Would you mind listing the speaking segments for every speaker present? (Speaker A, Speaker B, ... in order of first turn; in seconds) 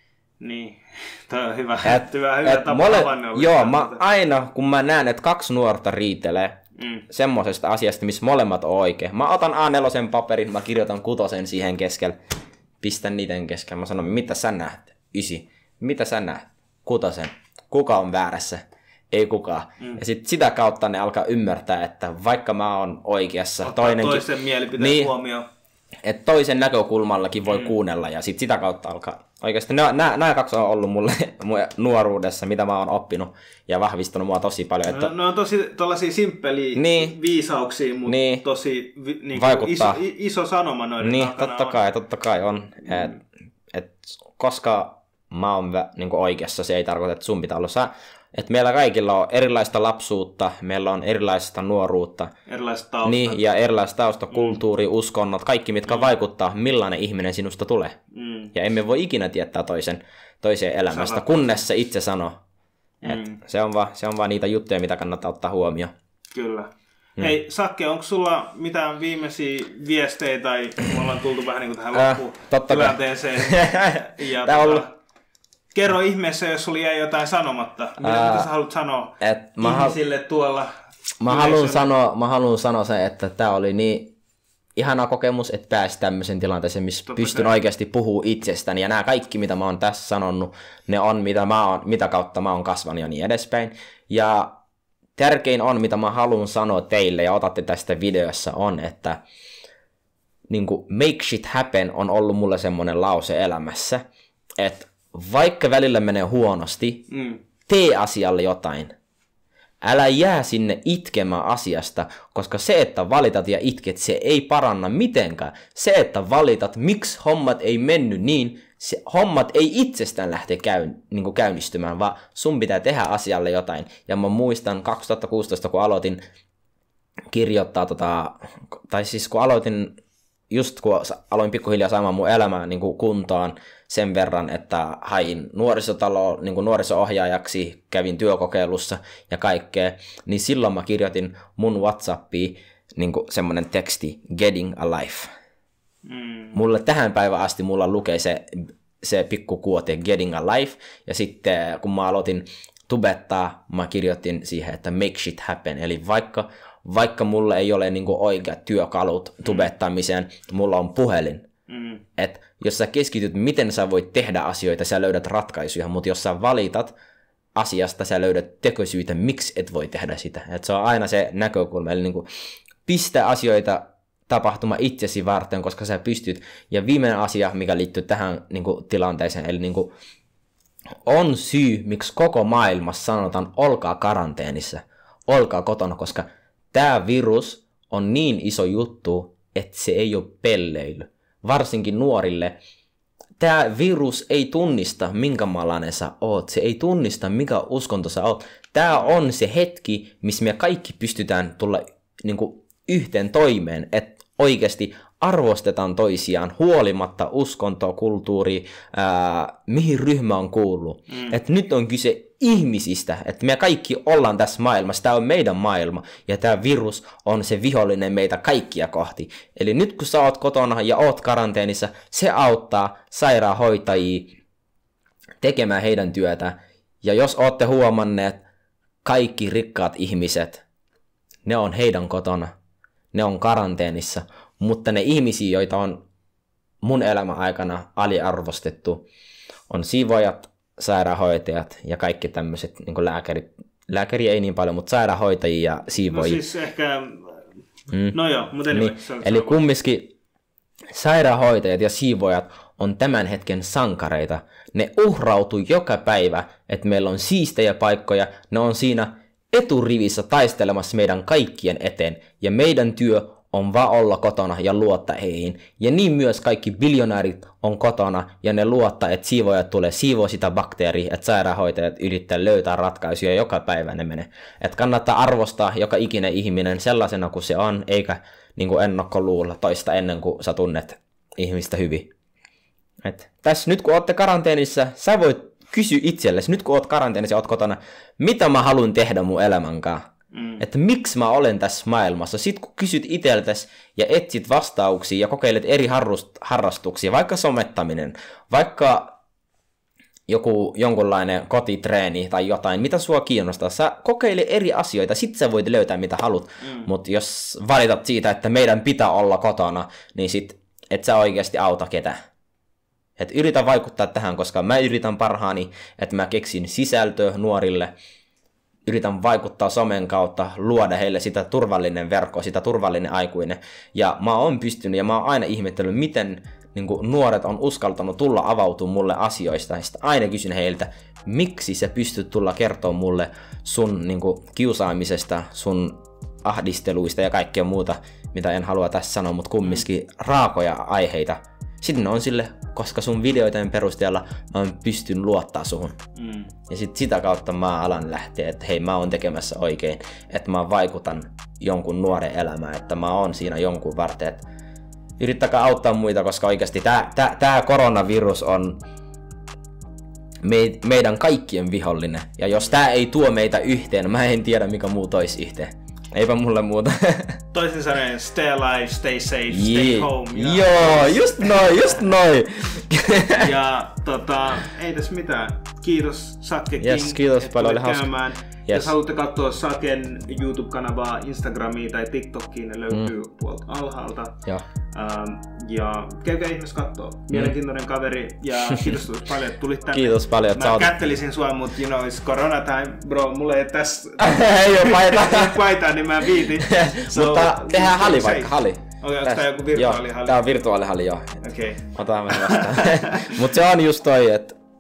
Speaker A: 0.4-4.1, 6.8-7.0, 23.6-25.4, 34.9-41.8, 52.5-53.4, 54.3-54.6, 58.1-58.5, 60.9-61.6, 63.0-63.4, 66.3-74.9, 75.7-81.9, 87.1-87.6, 107.1-107.4, 146.1-146.6, 161.7-162.0, 211.1-211.4, 246.1-247.5, 248.1-249.6, 290.3-290.6, 306.6-306.9, 346.2-346.5, 367.5-371.8, 373.4-384.4, 384.9-400.4, 401.4-403.4
Speaker B: 1.8-12.2, 12.8-25.1, 26.0-35.1, 36.8-37.2, 38.1-38.5, 39.4-40.0, 41.0-43.2, 43.7-52.3, 53.0-58.0, 58.5-62.4, 63.1-65.9, 71.9-74.9, 78.0-78.5, 79.2-80.0, 81.2-84.1, 84.8-94.5, 95.2-99.2, 100.5-104.0, 104.6-107.1, 107.7-108.9, 109.8-126.2, 127.3-130.0, 130.5-145.3, 146.6-161.5, 162.2-166.9, 167.6-172.3, 172.9-179.9, 181.1-192.6, 193.4-224.3, 225.4-228.4, 229.0-230.6, 231.5-232.6, 233.1-236.0, 236.8-239.1, 239.7-246.4, 247.9-248.2, 248.7-250.1, 250.9-282.1, 283.0-290.1, 290.6-299.1, 300.3-312.2, 313.2-317.9, 318.9-346.0, 346.7-354.4, 355.2-358.8, 360.4-367.4, 369.5-373.5, 376.8-378.1, 378.7-378.9, 389.9-390.9, 394.2-395.6, 396.4-401.4, 401.9-404.5